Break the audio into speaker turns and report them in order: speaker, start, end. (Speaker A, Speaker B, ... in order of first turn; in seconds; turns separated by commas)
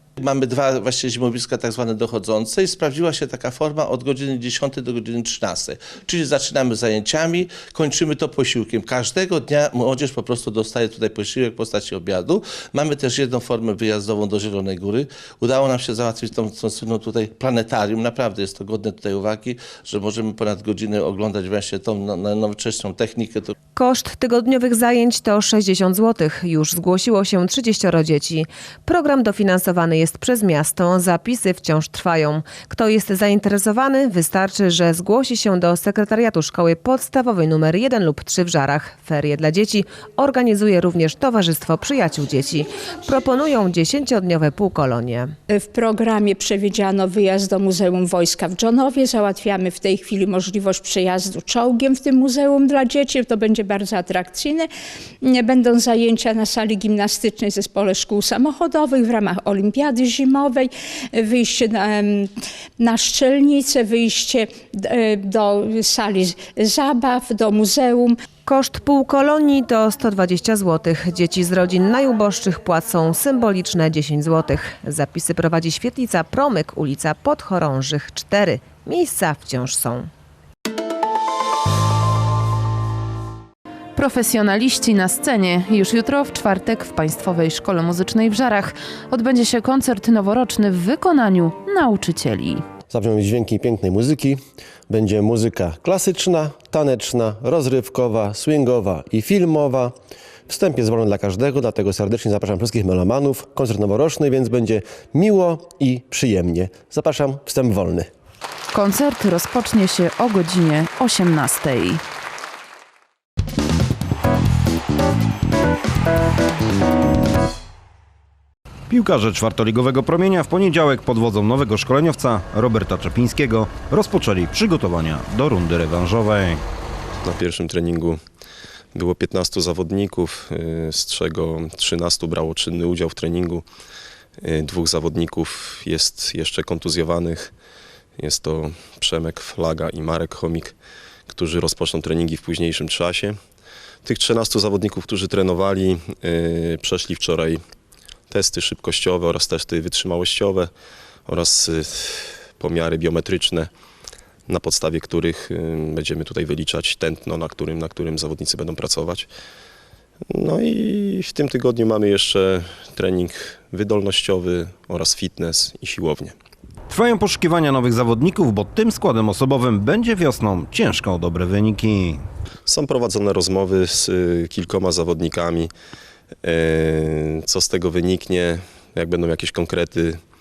Speaker A: 0.2-23.5, Speaker B: 23.8-45.3, Speaker C: 45.5-54.7, Speaker C: 55.2-68.1, Speaker B: 68.5-80.1, Speaker D: 84.0-92.6, Speaker E: 92.9-100.0, Speaker E: 100.5-108.1, Speaker D: 108.7-112.0, Speaker F: 118.9-126.6, Speaker G: 127.2-128.2, Speaker G: 128.9-133.6, Speaker G: 134.4-137.5, Speaker G: 138.2-140.8, Speaker G: 141.3-143.3, Speaker G: 144.0-147.6, Speaker G: 148.3-150.7, Speaker G: 151.3-153.7, Speaker G: 154.5-159.3, Speaker G: 160.3-166.4, Speaker F: 166.9-172.2, Speaker G: 172.7-175.7, Speaker G: 176.4-180.2